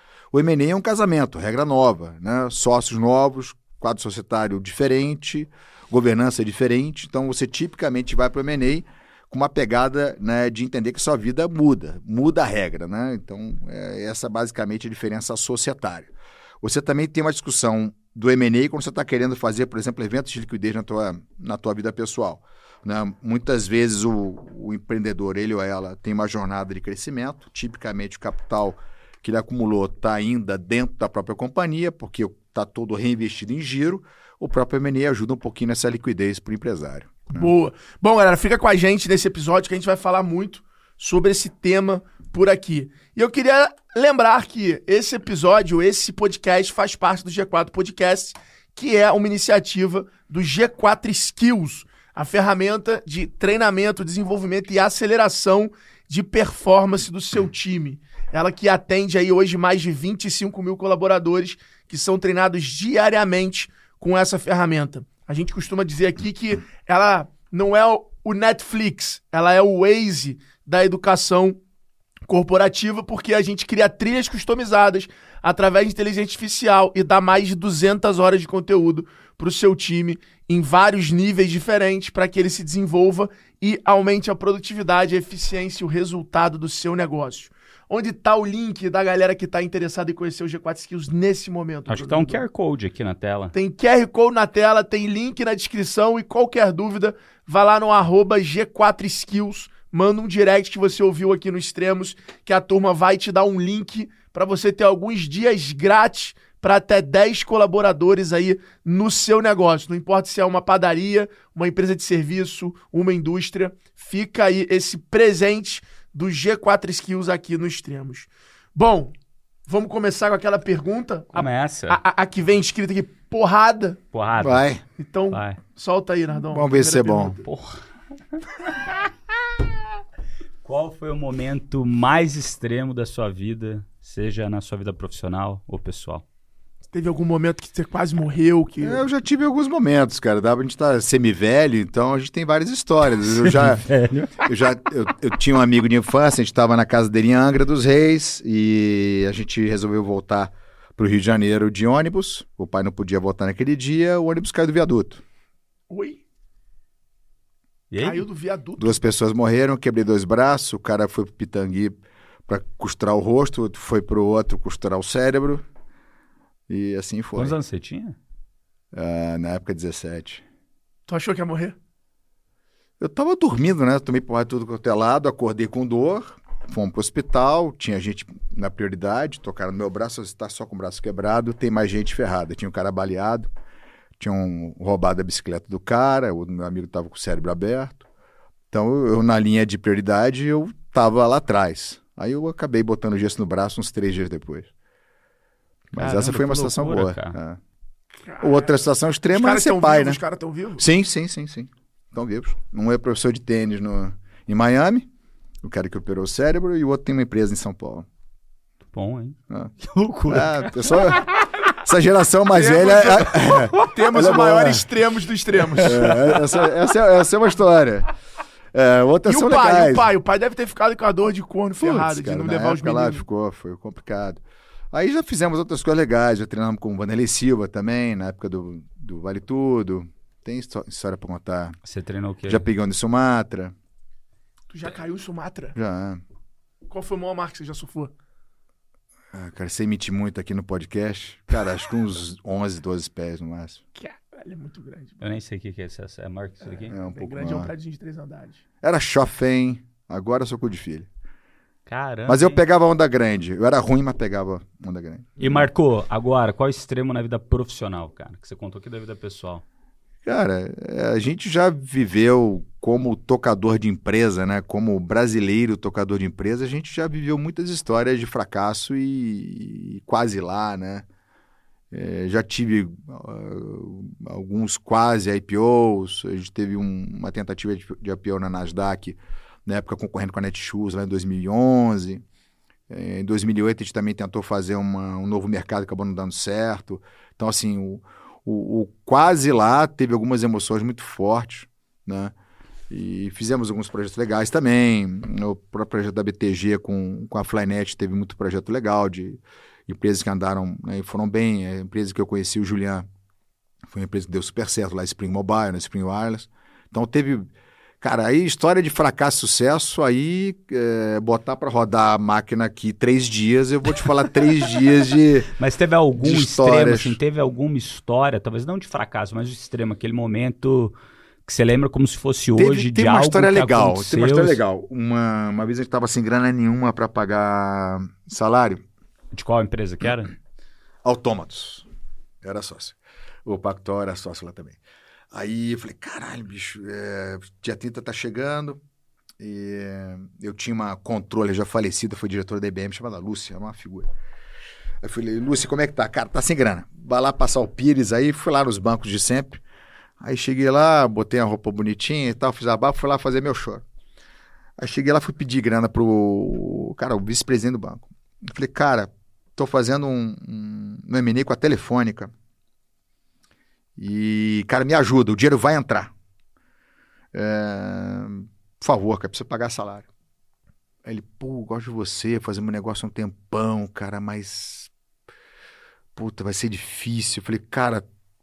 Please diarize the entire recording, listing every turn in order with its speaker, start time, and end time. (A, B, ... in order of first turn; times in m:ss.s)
0:00.3-0:16.1 A
0:16.6-0:37.5 A
0:37.3-1:11.6 B
1:12.3-1:32.4 B
1:31.9-1:33.5 C
1:33.5-1:59.1 B
1:59.7-2:04.0 B
2:01.3-2:02.0 C
2:04.1-2:04.6 C
2:04.4-2:04.8 A
2:05.0-2:07.4 B
2:05.3-2:05.6 C
2:06.5-2:07.4 A
2:07.4-2:07.8 C
2:10.6-2:16.2 C
2:16.9-2:19.1 B
2:18.8-2:35.2 A
2:23.4-2:24.4 C
2:35.9-2:36.2 B
2:37.9-2:38.2 C
2:38.0-2:39.0 B
2:38.8-2:45.6 A
2:46.7-2:47.6 A
2:47.4-2:48.2 C
2:48.9-2:50.4 A
2:51.1-2:51.8 B
2:53.0-3:03.5 A
3:04.2-3:08.0 A
3:08.7-3:14.7 A
3:15.9-3:17.6 A
3:16.0-3:17.4 C
3:16.0-3:16.4 B
3:18.3-3:18.7 B
3:18.4-3:20.2 A
3:19.3-3:20.8 B
3:20.8-3:25.1 A
3:25.6-3:28.1 A
3:28.9-3:31.2 C
3:30.3-3:34.9 A
3:32.5-3:36.4 B
3:35.8-3:38.1 A
3:38.7-3:40.1 A
3:39.3-3:43.2 B
3:41.8-3:44.4 A
3:44.9-3:51.8 A
3:51.8-3:52.6 C
3:52.5-3:53.7 A
3:54.7-3:55.8 B
3:55.8-3:56.2 A
3:56.9-3:58.1 B
3:59.3-4:03.8 A
4:04.0-4:05.2 B
4:05.2-4:07.0 C
4:06.7-4:08.6 B
4:06.9-4:07.7 A
4:08.8-4:11.1 A
4:11.9-4:12.6 C
4:12.3-4:15.6 A
4:15.4-4:19.6 C
4:20.2-4:31.0 A
4:31.9-4:42.2 A
4:42.9-4:52.3 A
4:52.9-5:03.1 A
5:03.9-5:07.5 A
5:08.0-5:15.5 A
5:15.6-5:20.9 C
5:16.2-5:17.2 A
5:21.5-5:24.6 C
5:22.6-5:28.8 A
5:29.3-5:30.3 C
5:31.0-5:31.9 A
5:32.4-5:34.8 A
5:35.3-5:38.8 A
5:39.4-5:44.1 A
5:45.0-5:49.6 A
5:50.2-5:53.8 A
5:54.8-6:02.3 A
6:04.0-6:06.1 A
6:07.3-6:10.1 A
6:11.0-6:14.9 A
6:16.2-6:18.0 A